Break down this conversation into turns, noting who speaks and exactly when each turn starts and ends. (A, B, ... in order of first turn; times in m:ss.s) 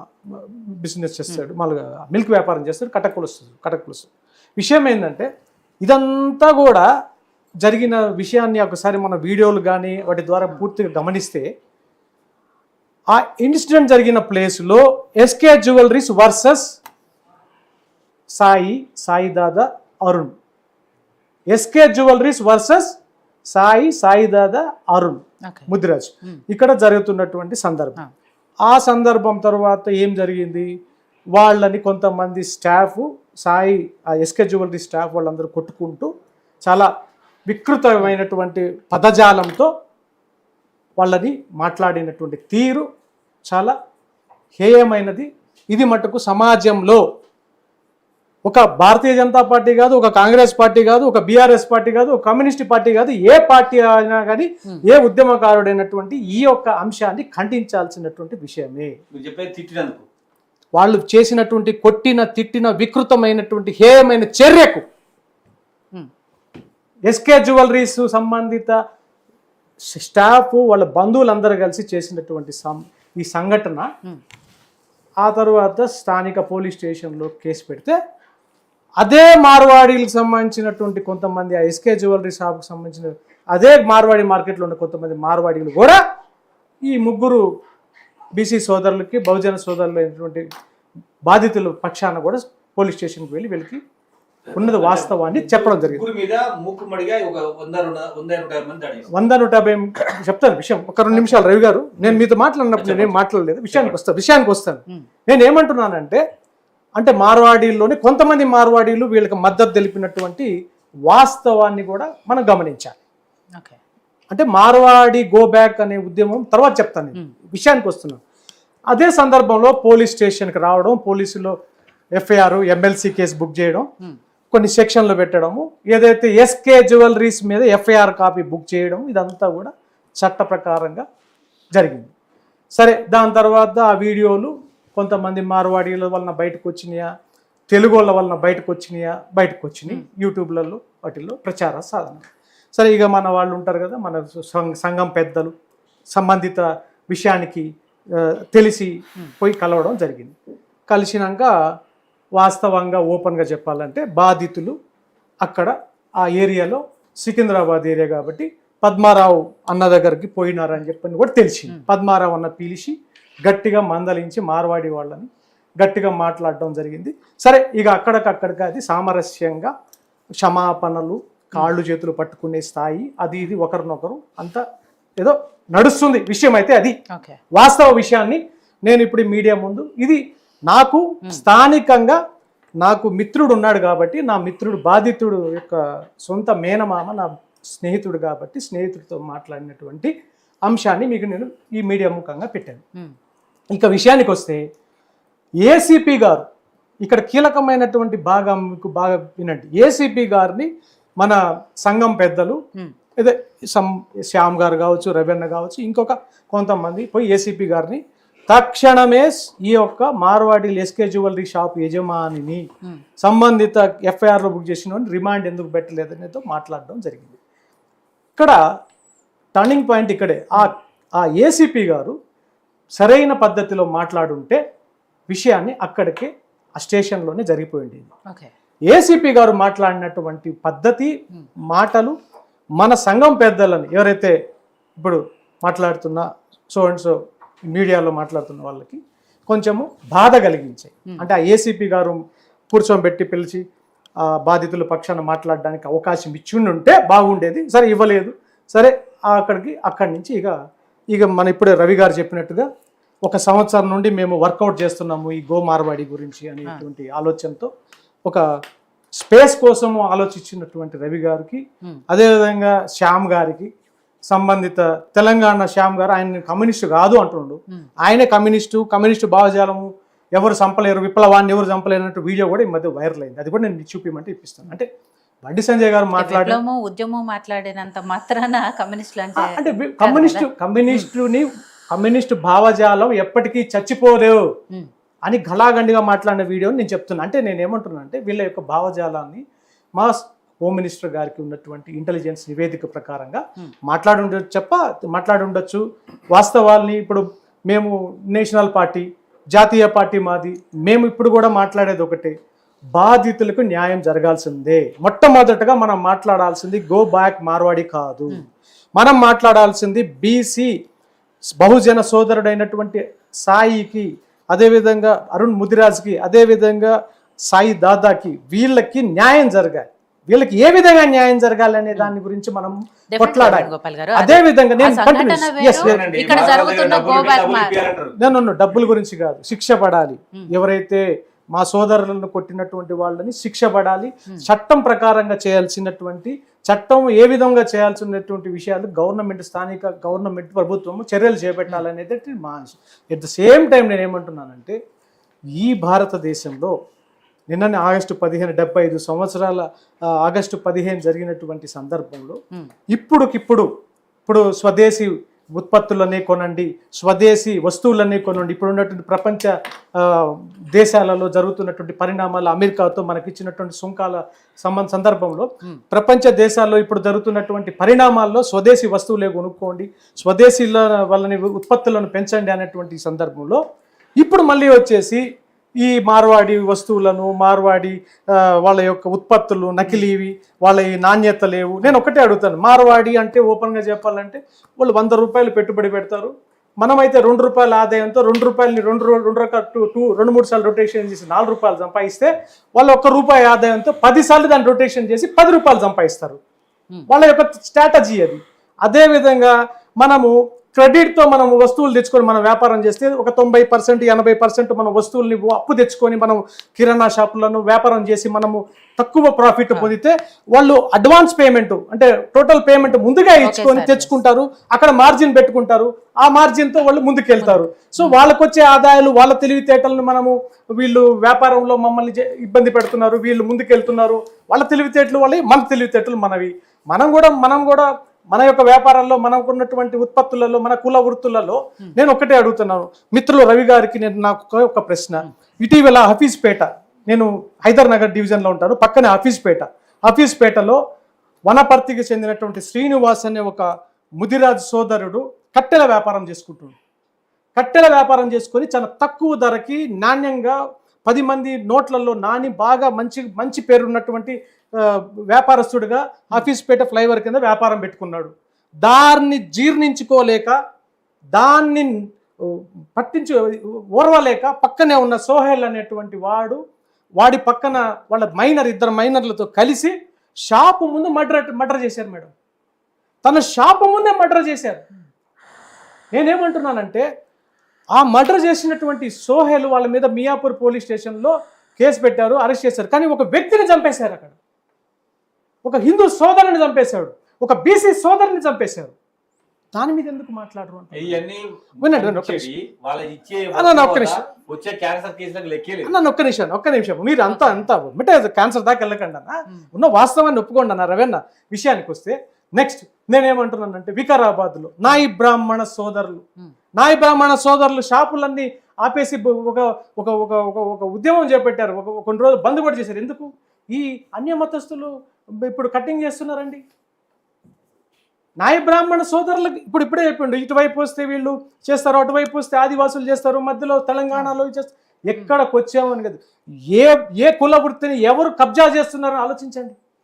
0:00.3-0:05.3 A
0:05.8-0:06.8 A
0:07.6-0:11.5 A
0:13.1-0:16.8 A
0:18.3-0:20.3 A
0:21.5-0:23.0 A
0:23.5-0:28.0 A
0:28.6-0:30.7 A
0:31.4-0:36.1 A
0:37.5-0:39.7 A
0:41.0-0:42.9 A
0:43.4-0:43.8 A
0:44.6-0:47.0 A
0:48.5-0:59.0 A
0:59.1-1:00.0 B
1:00.8-1:04.8 A
1:07.1-1:08.8 A
1:09.9-1:13.9 A
1:15.2-1:18.0 A
1:19.0-1:26.0 A
1:26.8-1:27.4 A
1:28.4-1:30.5 A
1:31.3-1:33.8 A
1:34.5-1:39.1 B
1:34.5-1:36.0 A
1:39.1-1:46.2 A
1:41.1-1:41.5 C
1:42.8-1:43.2 B
1:47.0-1:50.5 A
1:51.1-1:53.0 A
1:54.3-1:58.2 A
1:58.9-2:01.5 A
2:02.2-2:03.9 A
2:04.5-2:11.0 A
2:11.8-2:12.1 A
2:12.8-2:17.1 A
2:17.7-2:25.5 A
2:26.2-2:30.4 A
2:30.9-2:31.5 A
2:32.4-2:34.8 A
2:35.4-2:45.3 A
2:45.8-2:49.7 A
2:50.4-2:54.6 A
2:55.2-2:57.0 A
2:57.1-2:57.4 C
2:57.5-3:02.2 A
3:02.8-3:10.1 A
3:10.6-3:12.8 A
3:13.7-3:14.6 A
3:15.6-3:16.4 A
3:17.0-3:20.7 A
3:21.2-3:22.6 A
3:23.2-3:32.6 A
3:33.2-3:37.4 A
3:39.6-3:42.2 A
3:43.0-3:44.6 A
3:45.3-3:48.1 A
3:48.9-3:51.1 A
3:51.7-3:52.2 A
3:52.8-3:54.4 A
3:55.0-3:57.2 A
3:57.7-4:02.2 A
4:02.7-4:03.6 A
4:04.3-4:10.6 A
4:11.1-4:12.7 A
4:13.2-4:17.7 A
4:19.2-4:23.7 A
4:24.3-4:34.9 A
4:35.4-4:36.6 A
4:36.2-4:41.1 C
4:39.4-4:44.4 A
4:45.2-4:49.4 A
4:50.0-4:55.8 A
4:56.3-5:02.3 A
5:03.0-5:08.4 A
5:09.0-5:10.7 A
5:11.6-5:16.9 A
5:17.5-5:26.6 A
5:23.1-5:27.8 C
5:25.8-5:28.2 B
5:28.2-5:44.8 A
5:45.6-5:46.7 A
5:47.5-5:52.4 A
5:52.9-5:53.7 A
5:54.3-6:13.6 A
6:14.2-6:15.2 A
6:15.8-6:36.4 A
6:37.1-7:20.8 A
6:53.4-6:54.1 C
6:57.4-6:58.2 C
7:21.5-7:26.8 A
7:27.6-7:40.6 A
7:41.4-7:46.6 A
7:47.2-7:49.9 A
7:50.5-7:52.3 A
7:53.2-7:54.8 A
7:56.1-7:57.0 A
7:58.0-8:04.4 A
8:05.6-8:08.9 A
8:09.8-8:11.2 A
8:10.9-8:15.9 B
8:11.8-8:12.5 A
8:13.5-8:14.2 A
8:15.8-8:26.2 A
8:17.3-8:17.7 C
8:26.8-8:34.9 A
8:35.5-8:36.6 A
8:38.4-8:46.2 A
8:46.7-8:49.8 A